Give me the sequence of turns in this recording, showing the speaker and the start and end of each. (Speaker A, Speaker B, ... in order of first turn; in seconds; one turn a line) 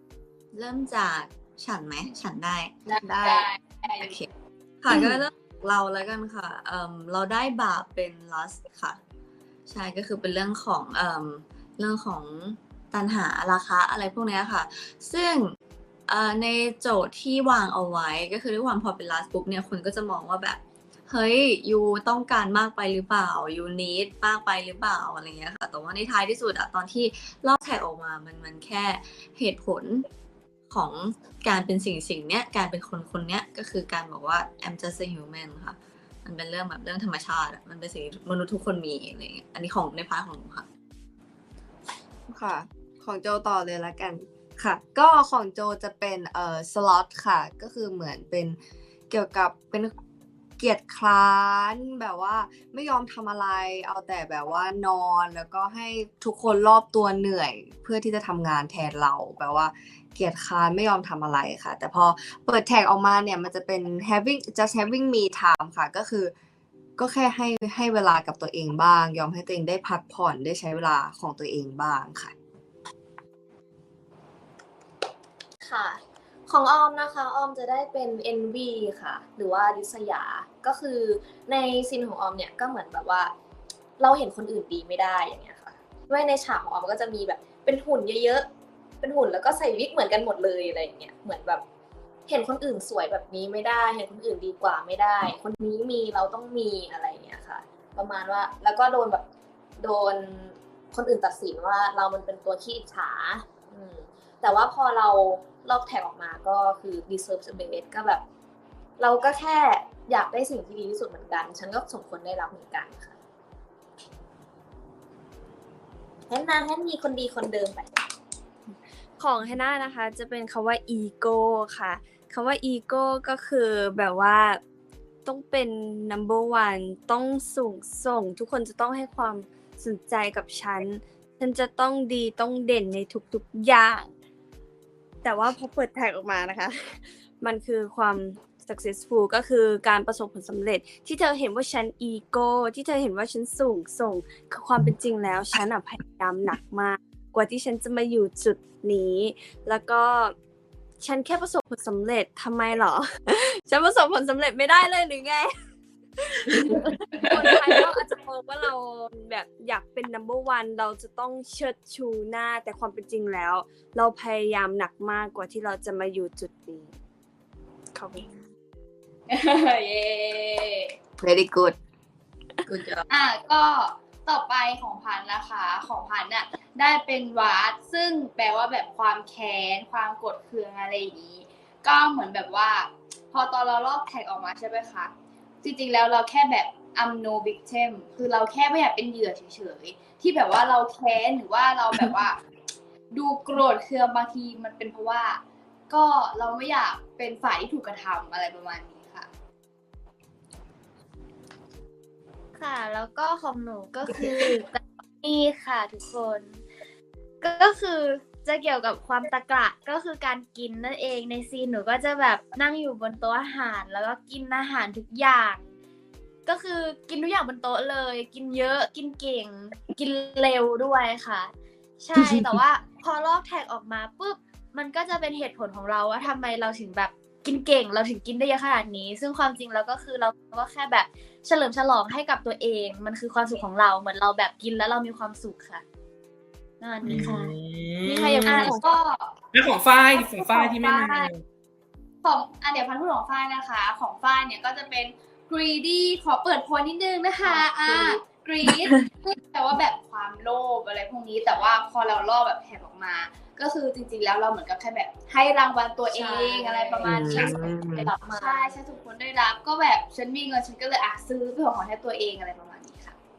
Speaker A: 0.5-4.3
Speaker B: 2.9-4.2
Speaker A: 4.8-9.0
Speaker C: 4.9-5.2
Speaker A: 9.7-15.6
Speaker A: 16.1-30.1
Speaker A: 30.7-40.7
Speaker C: 42.3-48.6
Speaker C: 49.1-49.9
Speaker C: 50.6-66.3
Speaker C: 67.0-72.3
Speaker D: 75.6-83.3
Speaker D: 84.0-88.5
Speaker D: 89.0-91.7
Speaker D: 92.3-99.2
Speaker D: 99.8-108.2
Speaker D: 109.0-113.2
Speaker D: 116.3-117.9
Speaker E: 119.2-124.6
Speaker E: 125.2-134.1
Speaker E: 135.2-150.3
Speaker E: 151.0-155.5
Speaker E: 156.2-166.9
Speaker B: 156.5-158.0
Speaker E: 167.9-168.3
Speaker B: 169.3-170.9
Speaker C: 171.2-171.8
Speaker A: 172.7-173.0
Speaker B: 173.1-185.1
Speaker B: 185.6-192.4
Speaker B: 193.1-199.3
Speaker F: 202.6-206.6
Speaker F: 207.4-215.7
Speaker F: 216.5-235.8
Speaker F: 236.8-237.5
Speaker G: 237.0-238.7
Speaker E: 238.1-238.8
Speaker B: 238.1-239.3
Speaker G: 239.5-241.4
Speaker B: 240.1-241.3
Speaker B: 242.2-263.2
Speaker D: 247.4-248.2
Speaker D: 256.1-258.8
Speaker C: 257.0-258.1